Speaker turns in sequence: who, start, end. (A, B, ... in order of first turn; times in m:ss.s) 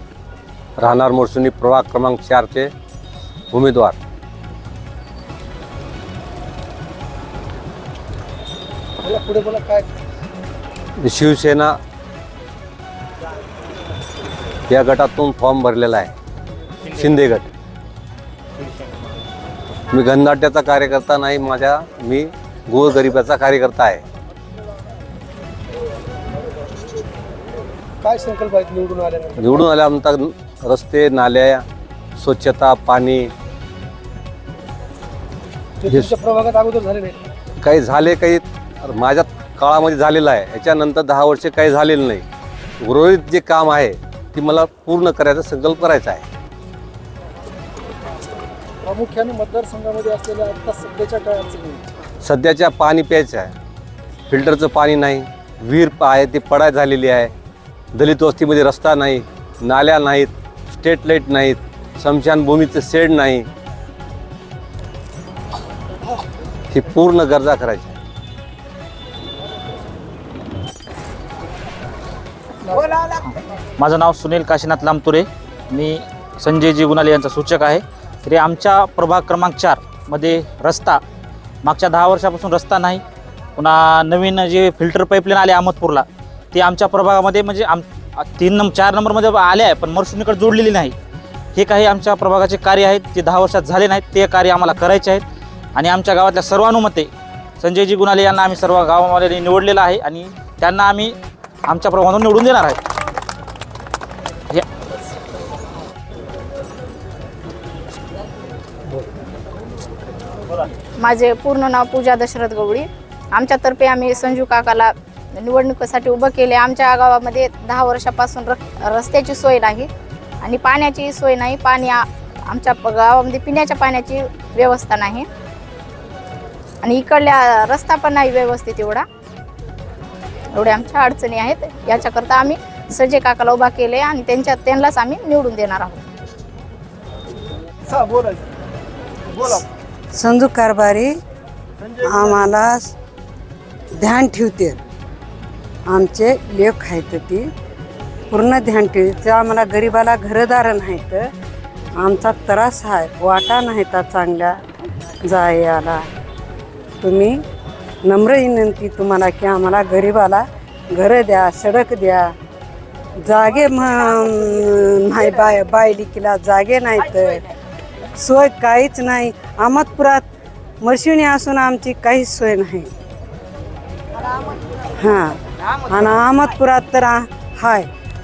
0:00.8-0:02.7 A
0:03.5-0:04.0 A
0:09.0-0:09.9 B
0:11.0-0:11.8 A
0:14.7-0:16.1 A
0:16.9-0:17.5 A
0:19.9-0:24.0 A
0:28.0-0:29.7 B
0:29.4-0:31.6 A
0:32.2-0:33.3 A
0:35.8-0:37.2 B
0:37.6-0:42.2 A
0:42.8-0:46.3 A
0:48.8-0:51.9 B
0:52.2-0:53.5 A
0:54.3-0:57.3 A
0:57.9-1:03.5 A
1:06.7-1:08.0 A
1:12.8-1:21.0 C
1:21.6-1:23.0 C
1:23.6-1:31.0 C
1:31.6-1:35.2 C
1:35.8-1:42.8 C
1:51.0-1:59.9 D
2:00.4-2:05.3 D
2:06.8-2:09.0 D
2:10.5-2:16.0 D
2:17.9-2:18.4 B
2:19.4-2:19.6 B
2:20.1-2:21.1 E
2:22.0-2:22.9 E
2:24.0-2:24.8 E
2:25.9-2:27.5 E
2:28.3-2:31.3 E
2:32.0-2:34.6 E
2:35.2-2:36.0 E
2:37.0-2:37.4 E
2:38.0-2:42.3 E
2:43.2-2:47.4 E
2:48.2-2:50.2 E
2:50.8-2:52.9 E
2:55.0-2:57.9 E